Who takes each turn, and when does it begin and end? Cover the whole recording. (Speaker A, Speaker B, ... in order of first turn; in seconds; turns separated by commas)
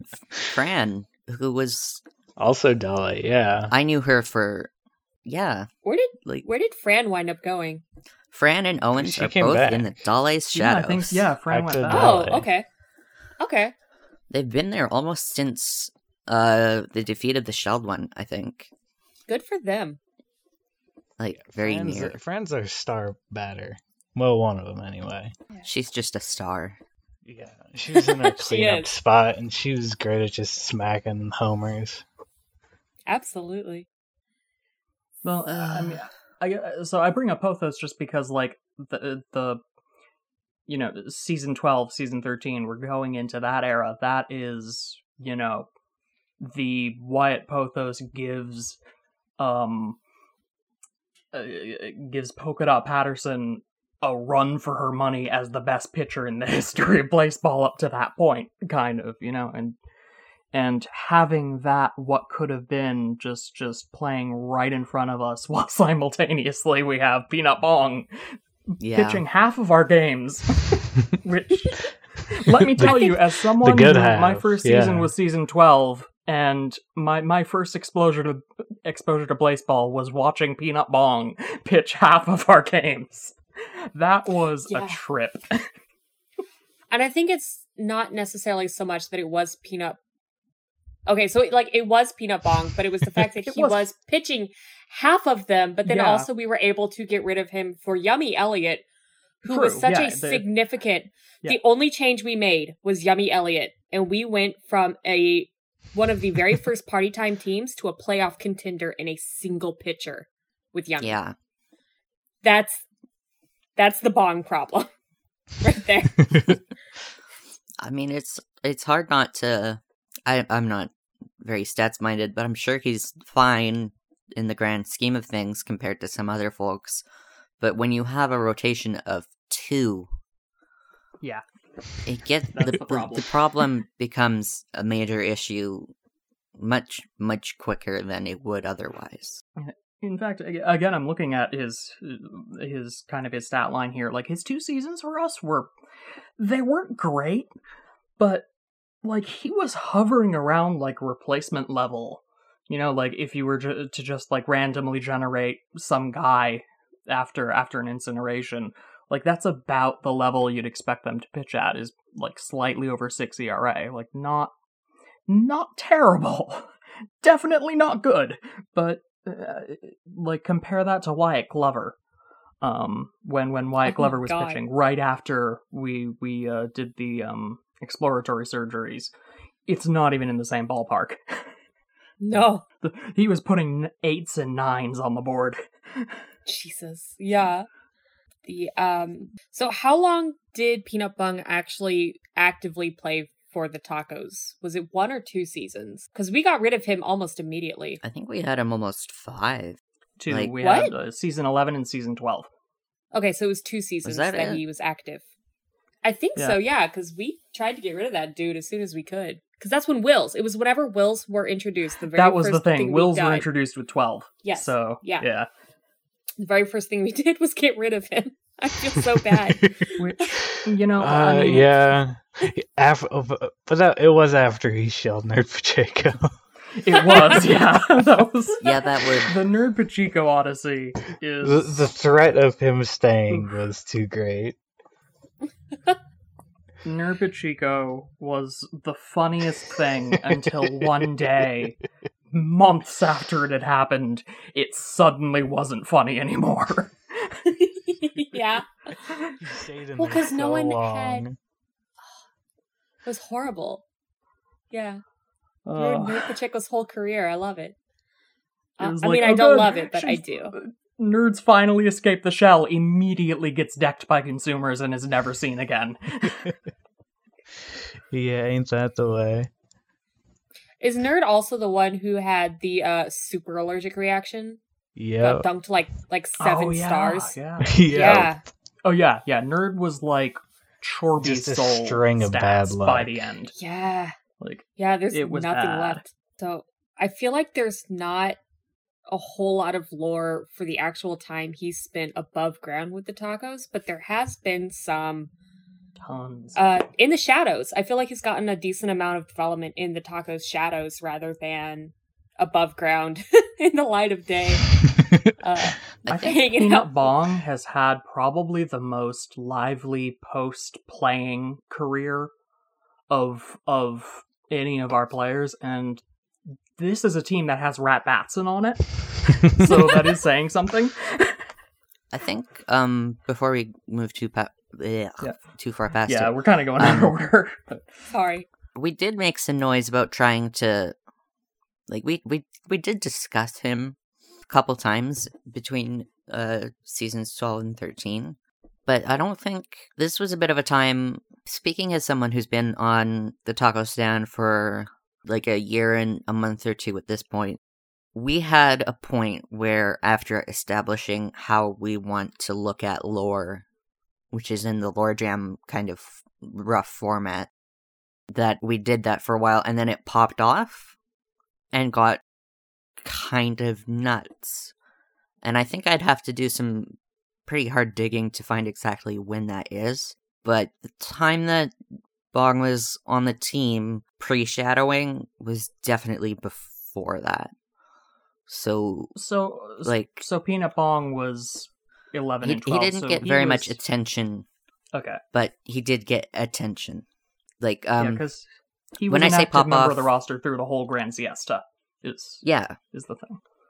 Speaker A: 0.5-2.0, Speaker B: 2.4-3.7, Speaker A: 3.7-4.7, Speaker A: 5.2-5.7, Speaker C: 5.8-7.8, Speaker A: 8.3-11.3, Speaker B: 8.9-9.9, Speaker D: 10.5-12.4, Speaker B: 11.5-12.5, Speaker C: 11.9-12.6, Speaker C: 13.4-13.7, Speaker A: 14.3-18.7, Speaker C: 19.3-20.0, Speaker A: 21.2-22.2, Speaker B: 21.4-25.3, Speaker A: 25.6-26.8, Speaker B: 27.2-32.0, Speaker C: 27.9-28.9, Speaker C: 33.1-33.9, Speaker D: 35.2-39.6, Speaker A: 35.5-36.0, Speaker D: 40.7-45.7, Speaker D: 46.4-48.8, Speaker D: 49.4-50.0, Speaker D: 51.3-59.8, Speaker D: 60.5-83.4, Speaker A: 68.8-69.2, Speaker B: 72.6-75.1, Speaker C: 72.8-73.2, Speaker D: 83.9-85.7, Speaker C: 84.7-85.0, Speaker C: 86.9-90.0, Speaker C: 91.1-98.8, Speaker D: 93.5-93.9, Speaker D: 95.8-96.3, Speaker C: 99.4-111.2, Speaker D: 99.5-100.5, Speaker A: 111.0-111.3, Speaker C: 112.4-112.8, Speaker C: 113.8-114.9, Speaker C: 115.6-116.4, Speaker A: 117.8-127.0, Speaker A: 127.6-130.1, Speaker A: 132.1-135.9, Speaker D: 132.5-133.4, Speaker A: 136.6-139.4, Speaker D: 139.6-145.7, Speaker D: 146.4-147.5, Speaker D: 148.2-148.5, Speaker D: 149.0-164.5, Speaker D: 165.3-166.7, Speaker D: 167.2-172.0, Speaker D: 172.6-179.1, Speaker C: 173.8-174.6, Speaker D: 179.7-181.5, Speaker C: 182.2-182.6, Speaker D: 182.8-186.2, Speaker C: 186.5-187.7, Speaker C: 188.5-198.0, Speaker A: 198.0-200.5, Speaker D: 200.2-202.5, Speaker C: 200.6-200.9, Speaker C: 203.1-205.2, Speaker A: 204.0-204.6, Speaker C: 206.0-213.5, Speaker D: 212.1-215.5, Speaker C: 214.4-215.2, Speaker C: 216.4-219.9, Speaker B: 219.3-219.7, Speaker D: 220.0-221.7, Speaker B: 220.5-226.3, Speaker D: 226.8-231.9, Speaker A: 228.6-229.3, Speaker B: 231.4-234.6, Speaker D: 236.8-241.8, Speaker D: 242.3-247.4, Speaker C: 247.6-248.7, Speaker B: 249.4-251.4, Speaker C: 250.0-251.2, Speaker C: 253.0-253.8, Speaker C: 254.7-255.0, Speaker D: 255.7-256.3, Speaker C: 255.8-257.8, Speaker C: 258.8-260.5, Speaker D: 258.8-266.5, Speaker B: 268.1-269.5, Speaker C: 270.8-274.6, Speaker B: 275.0-275.5, Speaker C: 275.2-277.4, Speaker D: 276.4-278.3, Speaker B: 277.6-278.3, Speaker C: 277.9-278.4, Speaker D: 278.8-283.5, Speaker B: 281.2-283.2, Speaker C: 283.5-284.1, Speaker D: 284.4-286.0, Speaker C: 284.8-288.4, Speaker C: 289.1-295.3, Speaker D: 296.0-296.6, Speaker C: 296.5-304.6, Speaker C: 305.4-307.0, Speaker A: 306.1-306.4, Speaker D: 306.2-312.3, Speaker D: 313.1-316.0, Speaker D: 316.8-321.5, Speaker A: 322.1-327.1, Speaker D: 326.1-328.0, Speaker C: 328.1-328.5, Speaker A: 328.8-330.9, Speaker A: 331.9-334.0, Speaker A: 334.5-338.4, Speaker A: 338.9-347.6, Speaker A: 348.1-353.6, Speaker A: 354.3-357.5, Speaker A: 358.3-360.9, Speaker A: 361.7-362.2, Speaker A: 363.0-364.7, Speaker A: 365.4-366.9, Speaker A: 367.5-371.7, Speaker A: 372.3-377.5, Speaker A: 378.5-379.1, Speaker D: 379.1-383.8, Speaker A: 379.8-380.2, Speaker A: 382.4-384.4, Speaker D: 384.9-385.2, Speaker A: 385.3-387.0, Speaker A: 387.6-388.2, Speaker D: 388.0-388.5, Speaker D: 389.0-393.4, Speaker A: 389.1-390.0, Speaker A: 392.4-392.8